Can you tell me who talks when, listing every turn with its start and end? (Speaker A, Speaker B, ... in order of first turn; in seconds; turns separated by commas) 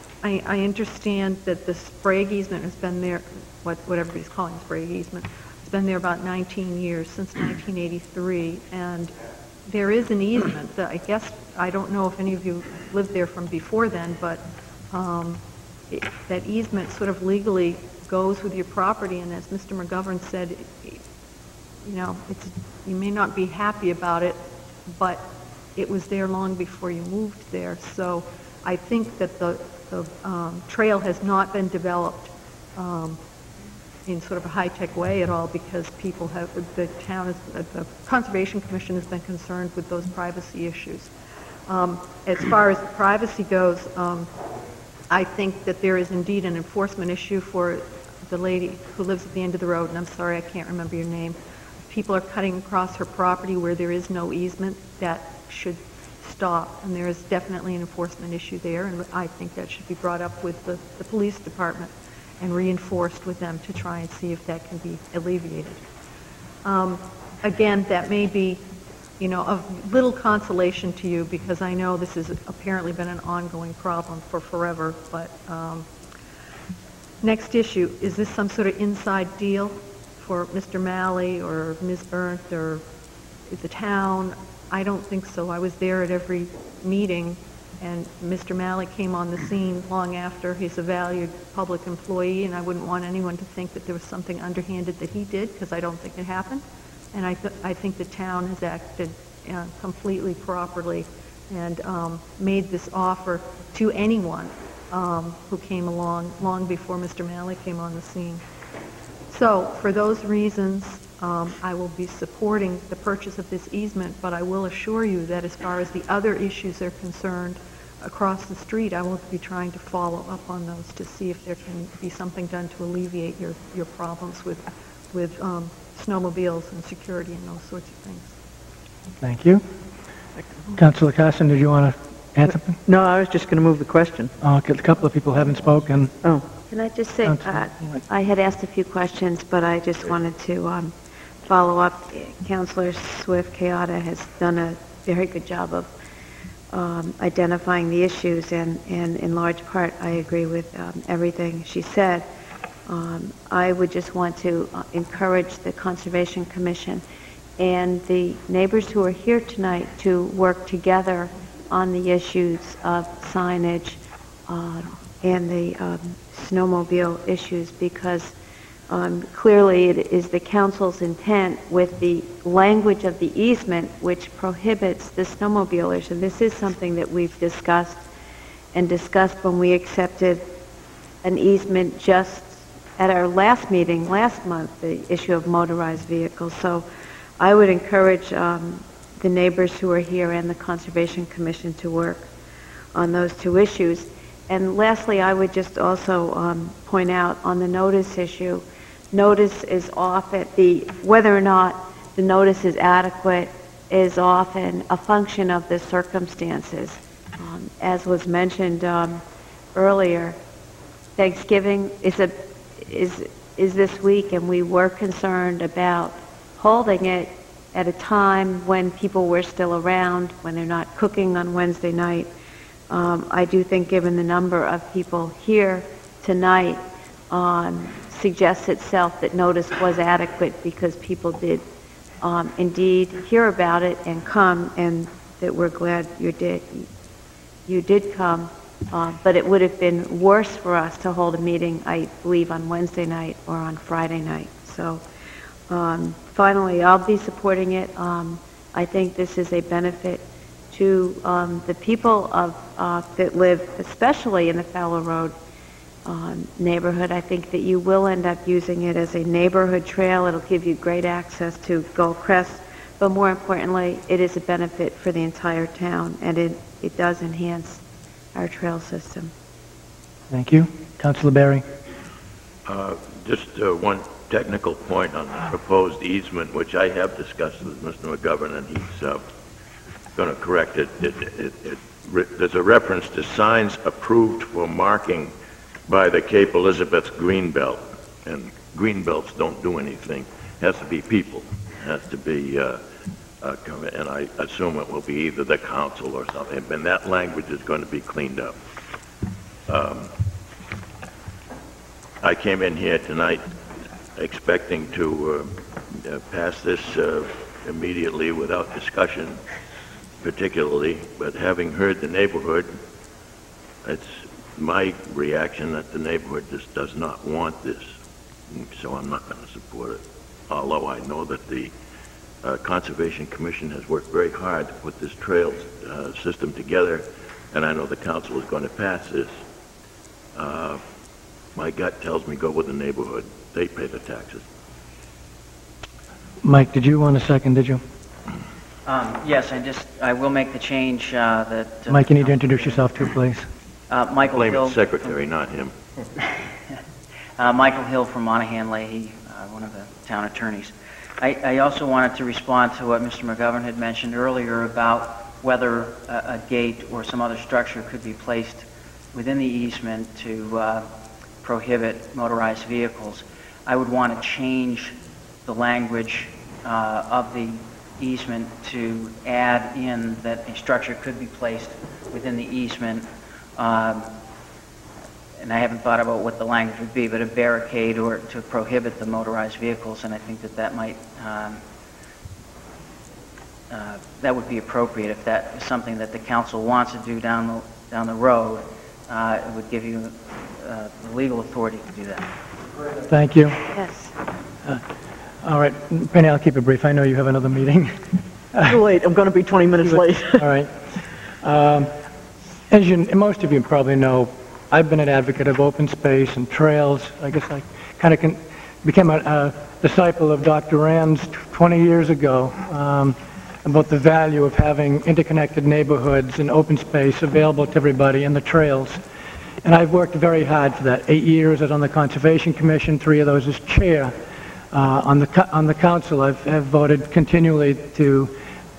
Speaker A: 0.2-9.1, Speaker A: 9.7-21.0, Speaker A: 21.8-24.4, Speaker A: 24.9-33.2, Speaker A: 34.0-41.1, Speaker A: 41.7-44.3, Speaker A: 45.1-51.4, Speaker A: 51.9-65.8, Speaker A: 66.6-68.6, Speaker A: 69.2-75.8, Speaker A: 77.2-82.8, Speaker A: 83.5-108.4, Speaker A: 109.3-128.3, Speaker B: 129.2-129.6, Speaker B: 130.7-132.8, Speaker C: 132.8-134.3, Speaker B: 134.4-136.1, Speaker D: 136.7-140.9, Speaker B: 137.2-138.0, Speaker D: 141.5-145.9, Speaker D: 146.7-152.3, Speaker D: 152.9-157.0, Speaker D: 157.6-168.3, Speaker D: 168.9-178.0, Speaker D: 178.7-180.4, Speaker D: 181.2-186.8, Speaker D: 187.4-192.3, Speaker D: 192.9-209.2, Speaker D: 209.7-210.4, Speaker D: 211.2-222.3, Speaker D: 222.9-231.6, Speaker D: 232.2-236.9, Speaker D: 237.7-245.0, Speaker D: 245.7-255.3, Speaker D: 256.1-267.8, Speaker D: 268.3-269.3, Speaker B: 270.3-271.6, Speaker E: 272.6-279.2, Speaker E: 280.1-285.3, Speaker E: 285.9-292.8, Speaker E: 293.4-298.6, Speaker E: 299.7-300.1, Speaker E: 302.2-303.4, Speaker E: 304.1-309.4, Speaker E: 310.2-312.8, Speaker E: 313.8-317.9, Speaker E: 318.5-321.7, Speaker E: 322.4-329.4, Speaker E: 330.3-330.8, Speaker E: 331.5-334.4, Speaker B: 336.4-337.8, Speaker F: 338.9-342.9, Speaker B: 341.9-343.5, Speaker F: 343.9-345.1, Speaker E: 344.2-345.7, Speaker F: 347.4-360.9, Speaker F: 361.4-374.1, Speaker F: 375.4-381.6, Speaker F: 383.7-392.3, Speaker B: 393.1-393.6, Speaker D: 393.7-394.1, Speaker B: 395.4-398.0, Speaker C: 398.6-400.4, Speaker B: 399.9-400.7, Speaker B: 401.4-401.9, Speaker B: 402.7-419.0, Speaker B: 419.6-424.1, Speaker B: 424.7-428.3